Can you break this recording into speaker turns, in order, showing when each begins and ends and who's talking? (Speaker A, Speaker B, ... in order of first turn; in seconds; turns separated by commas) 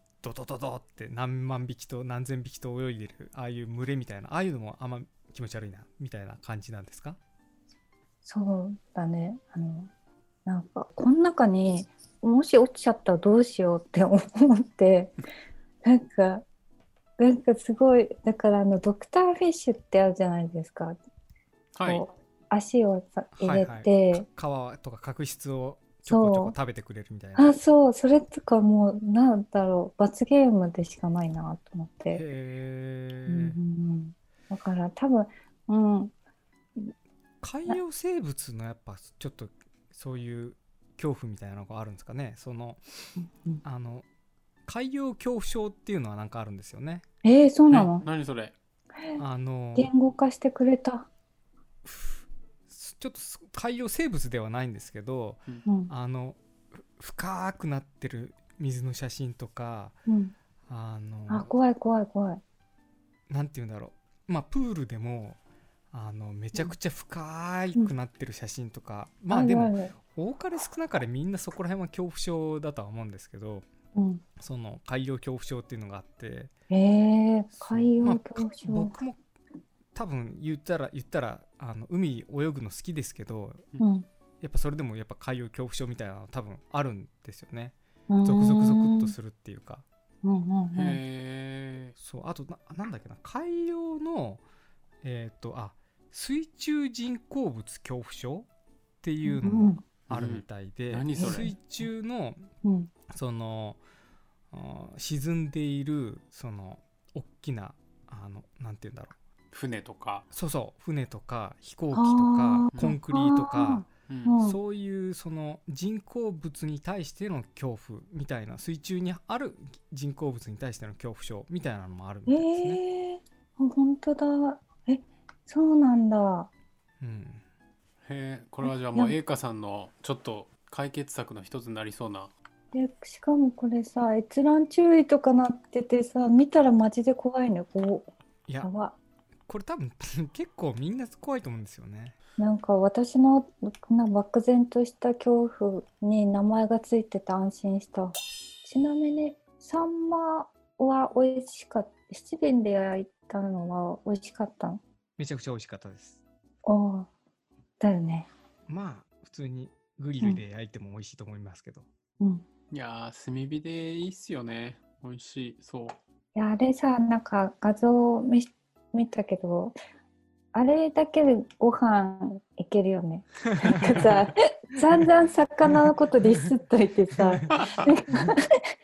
Speaker A: 0.2-7.2, Speaker B: 8.2-9.9, Speaker B: 10.5-15.2, Speaker B: 15.8-16.4, Speaker B: 17.2-21.0, Speaker C: 21.8-22.1, Speaker B: 21.8-24.3, Speaker A: 23.4-27.5, Speaker B: 26.1-26.6, Speaker B: 27.4-32.2, Speaker A: 32.1-33.6, Speaker B: 33.3-36.1, Speaker A: 37.4-44.1, Speaker A: 44.7-47.0, Speaker B: 47.2-48.1, Speaker C: 47.7-48.5, Speaker A: 49.2-49.9, Speaker B: 49.8-51.1, Speaker A: 51.9-56.4, Speaker B: 55.7-55.9, Speaker A: 57.0-60.0, Speaker B: 60.1-60.3, Speaker A: 60.7-61.5, Speaker B: 61.3-62.4, Speaker A: 63.3-65.4, Speaker A: 65.9-73.7, Speaker B: 69.3-69.9, Speaker B: 74.0-74.2, Speaker A: 74.4-76.5, Speaker B: 76.7-79.0, Speaker A: 77.5-79.2, Speaker A: 80.0-83.7, Speaker B: 83.8-84.1, Speaker A: 84.4-89.8, Speaker B: 88.1-89.2, Speaker B: 90.2-91.0, Speaker C: 90.7-92.0, Speaker A: 92.0-94.4, Speaker A: 95.0-98.5, Speaker A: 99.0-102.5, Speaker B: 99.2-99.8, Speaker C: 100.1-101.5, Speaker B: 101.2-101.5, Speaker B: 102.6-102.9, Speaker A: 103.1-103.8, Speaker A: 104.5-109.2, Speaker C: 109.5-110.3, Speaker A: 110.3-113.9, Speaker B: 111.9-114.6, Speaker C: 114.1-114.4, Speaker A: 114.4-122.8, Speaker B: 122.3-126.5, Speaker A: 127.0-127.4, Speaker C: 128.0-132.3, Speaker B: 128.6-129.2, Speaker B: 132.7-138.1, Speaker B: 138.6-139.0, Speaker A: 139.5-142.2, Speaker B: 142.4-148.1, Speaker B: 148.6-154.8, Speaker A: 155.2-156.2, Speaker B: 156.7-157.1, Speaker B: 157.8-158.3, Speaker A: 158.7-161.9, Speaker C: 162.7-166.0, Speaker B: 166.3-169.8, Speaker B: 170.5-178.4, Speaker A: 173.7-174.1